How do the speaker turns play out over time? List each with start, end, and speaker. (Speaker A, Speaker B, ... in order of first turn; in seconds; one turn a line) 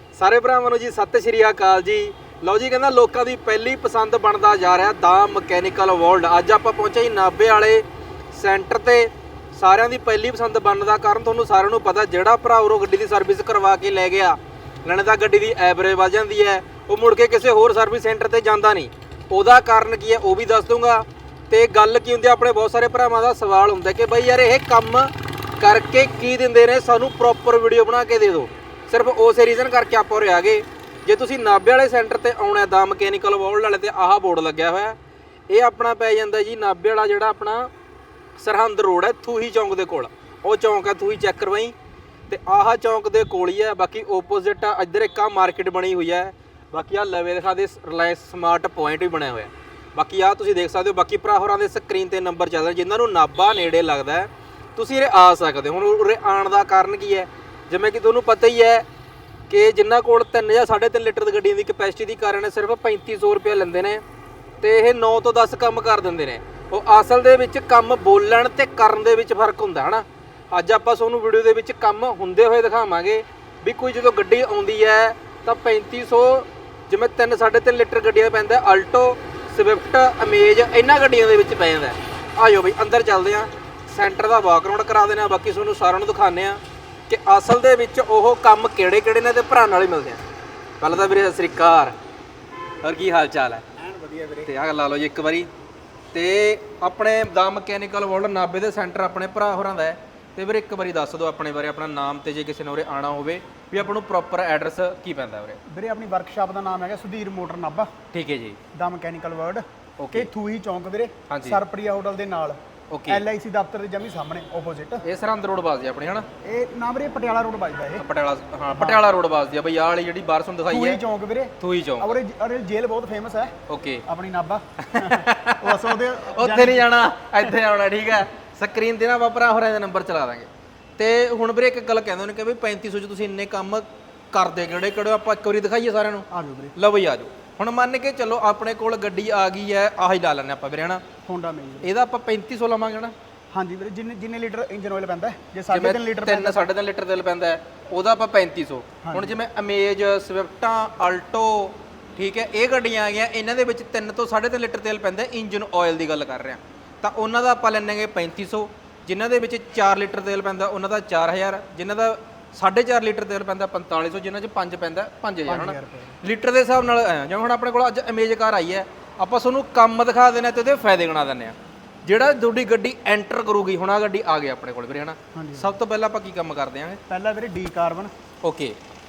Speaker A: 0.1-35.0
Speaker A: 35.5-37.7
Speaker A: 38.4-41.7
Speaker A: 42.3-58.9
Speaker A: 59.5-64.0
Speaker A: 64.6-90.2
Speaker A: 90.8-91.9
Speaker A: 92.8-93.6
Speaker B: 93.8-94.5
Speaker A: 94.5-95.5
Speaker A: 96.1-105.6
Speaker B: 105.7-107.9
Speaker A: 108.1-108.6
Speaker B: 108.8-115.0
Speaker A: 110.0-110.3
Speaker A: 111.3-111.6
Speaker A: 112.9-113.2
Speaker A: 115.0-116.3
Speaker B: 116.4-118.0
Speaker A: 118.0-121.0
Speaker B: 118.7-119.0
Speaker B: 120.7-123.5
Speaker A: 121.6-122.2
Speaker A: 123.7-124.0
Speaker B: 124.0-127.5
Speaker A: 124.8-141.0
Speaker B: 136.3-136.7
Speaker B: 141.2-141.9
Speaker A: 141.8-143.1
Speaker B: 143.5-146.7
Speaker A: 145.7-177.0
Speaker B: 149.0-149.4
Speaker B: 165.5-166.2
Speaker B: 175.3-175.7
Speaker B: 177.1-178.1
Speaker A: 178.4-178.8